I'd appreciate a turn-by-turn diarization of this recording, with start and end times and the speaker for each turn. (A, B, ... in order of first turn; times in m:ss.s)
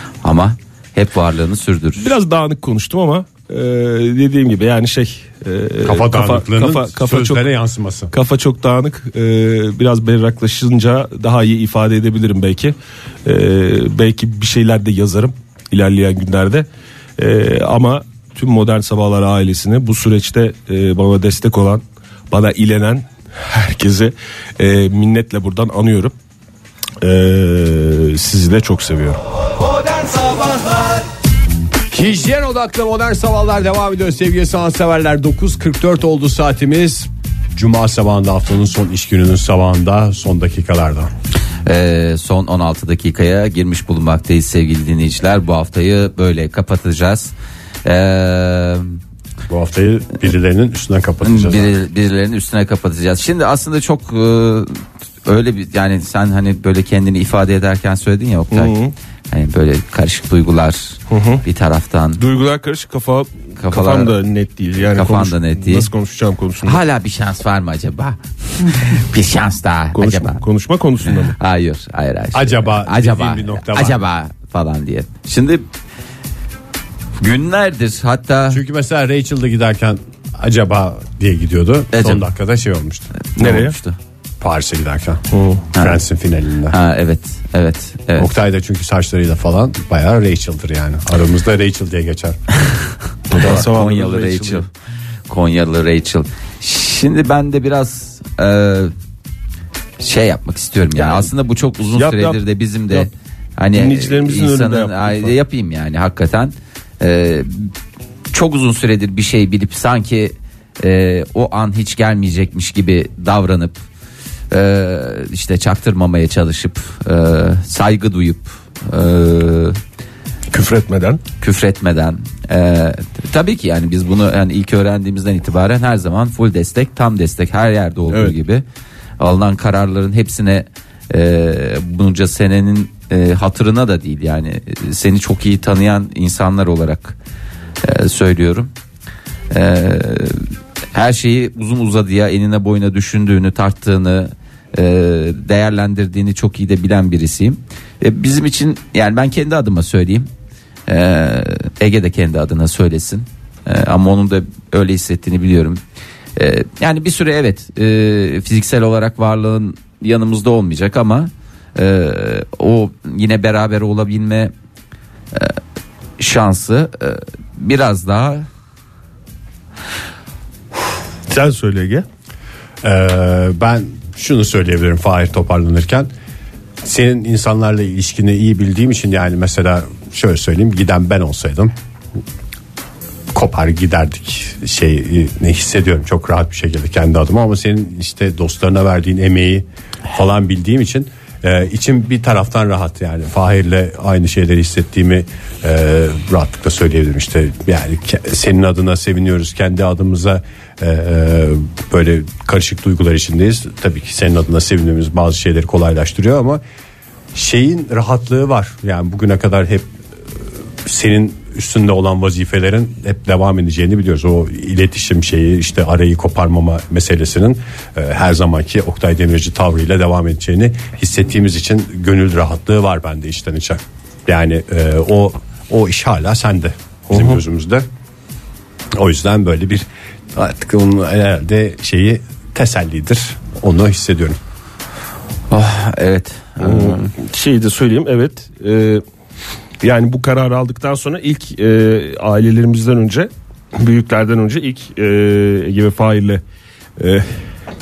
0:00.2-0:02.1 A
0:02.0-0:07.5 B
0:05.8-0:08.1 C
0:08.1-0:16.7 B
0:17.2-0:26.1 B
0:27.0-0:29.2 B
0:31.9-0:41.1 C
0:41.6-0:47.3 A
0:47.8-0:48.9 A
0:49.5-0:51.7 C
0:51.2-0:58.7 A
0:58.5-0:58.9 B
0:59.3-1:02.2 A
1:01.1-1:01.4 B
1:02.2-1:06.8 B
1:03.6-1:04.1 A
1:04.8-1:05.9 A
1:06.6-1:10.4 A
1:09.9-1:11.4 B
1:11.1-1:15.6 A
1:12.3-1:14.0 C
1:17.2-1:18.6 A
1:18.5-1:23.1 C
1:21.9-1:22.2 A
1:23.2-1:24.0 A
1:23.4-1:23.8 B
1:24.4-1:25.2 C
1:25.3-1:25.7 B
1:25.7-1:26.8 C
1:26.7-1:28.3 A
1:28.2-1:32.4 C
1:33.3-1:34.6 B
1:33.3-1:34.7 A
1:35.3-1:38.9 A
1:40.0-1:47.7 A
1:41.9-1:43.1 B
1:43.7-1:45.3 B
1:48.3-1:53.8 A
1:54.5-1:59.8 A
2:00.5-2:01.2 B
2:01.4-2:08.6 A
2:08.1-2:08.4 B
2:09.2-2:17.2 A
2:17.8-2:18.7 A
2:19.5-2:20.4 A
2:20.9-2:30.3 A
2:30.9-2:35.8 A
2:36.4-2:44.5 A
2:45.3-2:45.6 A
2:46.2-2:48.4 A
2:51.3-2:52.0 B
2:52.8-2:56.1 C
2:56.8-3:01.7 C
3:03.3-3:26.6 C
3:27.3-3:29.9 C
3:30.8-3:47.9 C
3:47.1-3:47.4 B
3:48.9-3:54.4 C
3:55.5-3:57.1 A
3:56.6-3:59.0 B
3:59.8-4:06.4 B
4:07.0-4:07.3 B